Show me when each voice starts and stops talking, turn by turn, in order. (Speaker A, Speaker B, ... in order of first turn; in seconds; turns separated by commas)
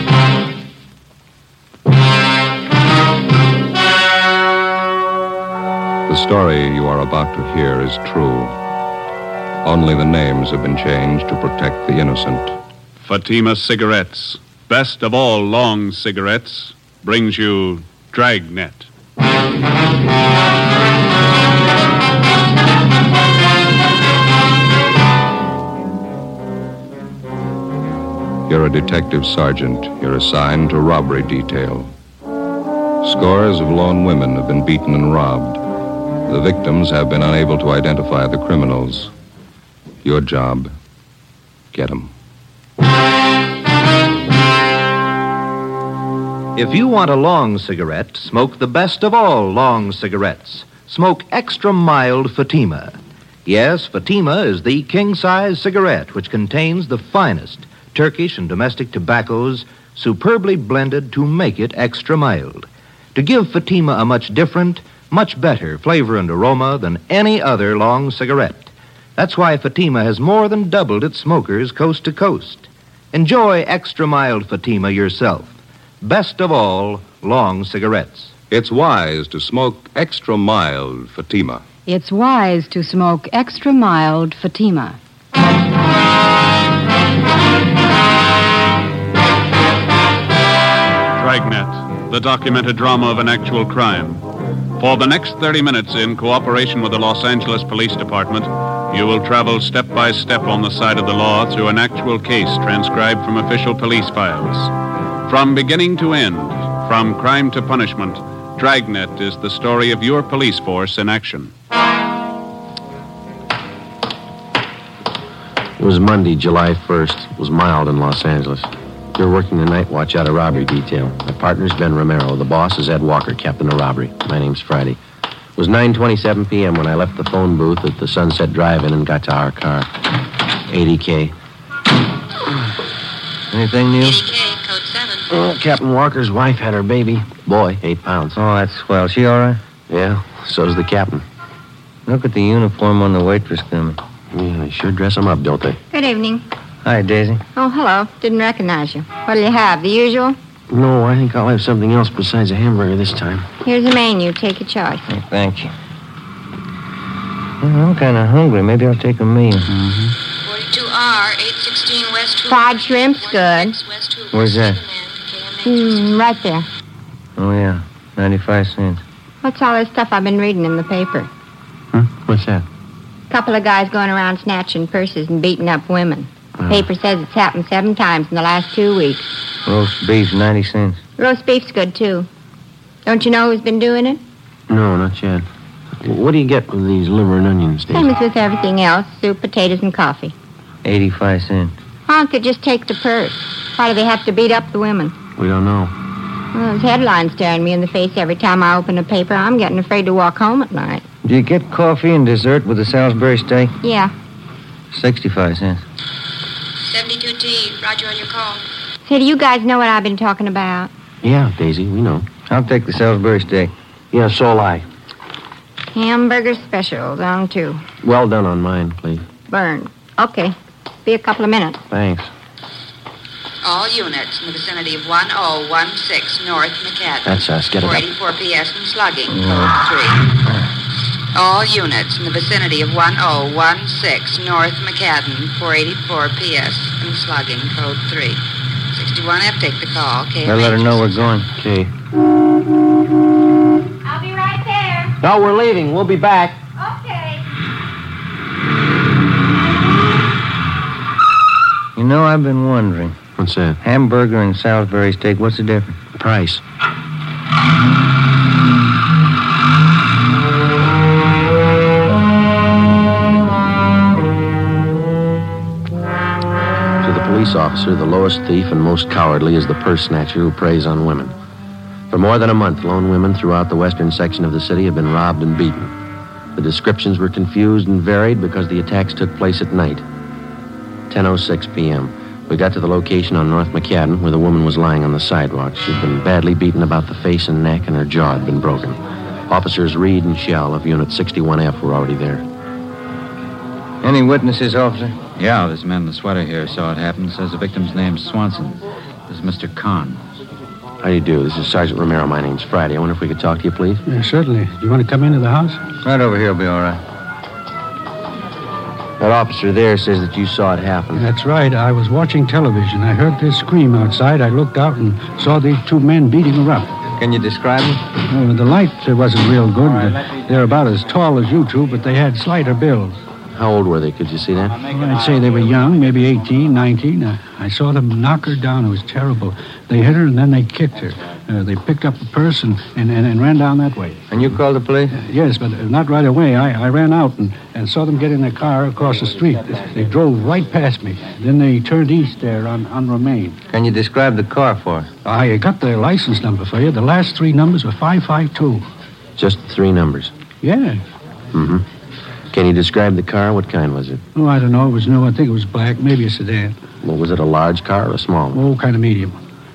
Speaker A: 6.1-8.6, Speaker A: 9.6-12.6, Speaker B: 13.0-18.9, Speaker A: 28.5-31.9, Speaker A: 33.0-35.6, Speaker A: 36.3-39.1, Speaker A: 40.0-40.7, Speaker A: 41.7-42.1, Speaker C: 46.5-78.3, Speaker A: 78.5-81.6, Speaker D: 81.9-85.0, Speaker B: 91.2-94.2, Speaker B: 94.8-104.7, Speaker B: 105.3-111.5, Speaker E: 115.8-125.0, Speaker E: 125.6-129.9, Speaker E: 130.7-131.3, Speaker F: 133.5-134.2, Speaker G: 134.0-135.3, Speaker E: 135.3-138.4, Speaker F: 138.4-139.6, Speaker E: 139.9-141.2, Speaker F: 142.1-144.0, Speaker E: 144.3-145.8, Speaker H: 145.9-146.4, Speaker F: 146.8-147.4, Speaker H: 147.6-150.4, Speaker E: 150.7-153.5, Speaker H: 153.6-155.0, Speaker F: 155.1-155.7, Speaker F: 157.6-160.2, Speaker G: 160.4-165.5, Speaker H: 162.5-163.8, Speaker F: 164.3-164.8, Speaker H: 165.6-166.7, Speaker F: 167.4-169.0, Speaker H: 169.4-171.3, Speaker E: 171.9-172.7, Speaker H: 173.3-179.3, Speaker E: 176.6-176.9, Speaker F: 179.7-181.0, Speaker H: 181.2-182.3, Speaker H: 183.1-184.2, Speaker E: 184.7-185.5, Speaker E: 186.0-188.1, Speaker H: 187.9-190.3, Speaker F: 190.8-191.7, Speaker H: 192.1-195.1, Speaker E: 195.4-195.9, Speaker H: 196.5-201.0, Speaker F: 201.2-203.8, Speaker H: 203.8-204.1, Speaker F: 204.9-205.8, Speaker G: 206.8-208.6, Speaker H: 209.1-210.9, Speaker E: 211.2-212.3, Speaker F: 212.5-213.7, Speaker E: 214.1-214.9, Speaker H: 215.9-217.8, Speaker E: 218.0-219.3, Speaker H: 219.5-220.6, Speaker H: 221.1-221.8, Speaker E: 221.9-222.3, Speaker G: 223.6-230.2, Speaker E: 227.2-228.1, Speaker G: 231.3-241.3, Speaker F: 240.5-241.5, Speaker E: 241.6-241.9, Speaker H: 244.1-245.2, Speaker E: 245.2-246.6, Speaker H: 246.8-247.4, Speaker F: 252.0-253.2, Speaker E: 253.4-253.8, Speaker F: 253.8-256.0, Speaker E: 256.1-256.6, Speaker E: 267.0-271.4, Speaker E: 272.1-275.9, Speaker E: 276.6-280.0, Speaker E: 281.1-292.4, Speaker F: 294.0-295.2, Speaker I: 295.4-300.2, Speaker E: 301.0-304.0, Speaker J: 304.1-305.9, Speaker F: 306.0-307.0, Speaker E: 309.2-311.3, Speaker J: 311.1-316.9, Speaker F: 317.2-318.1, Speaker J: 318.2-323.2, Speaker E: 323.5-324.8, Speaker J: 324.9-334.3, Speaker F: 334.3-335.2, Speaker J: 335.1-343.6, Speaker F: 343.7-345.1, Speaker J: 345.2-348.8, Speaker E: 349.4-350.3, Speaker J: 350.6-351.0, Speaker E: 351.5-351.9, Speaker E: 352.5-354.2, Speaker J: 354.4-356.8, Speaker E: 357.0-358.6, Speaker J: 358.5-359.4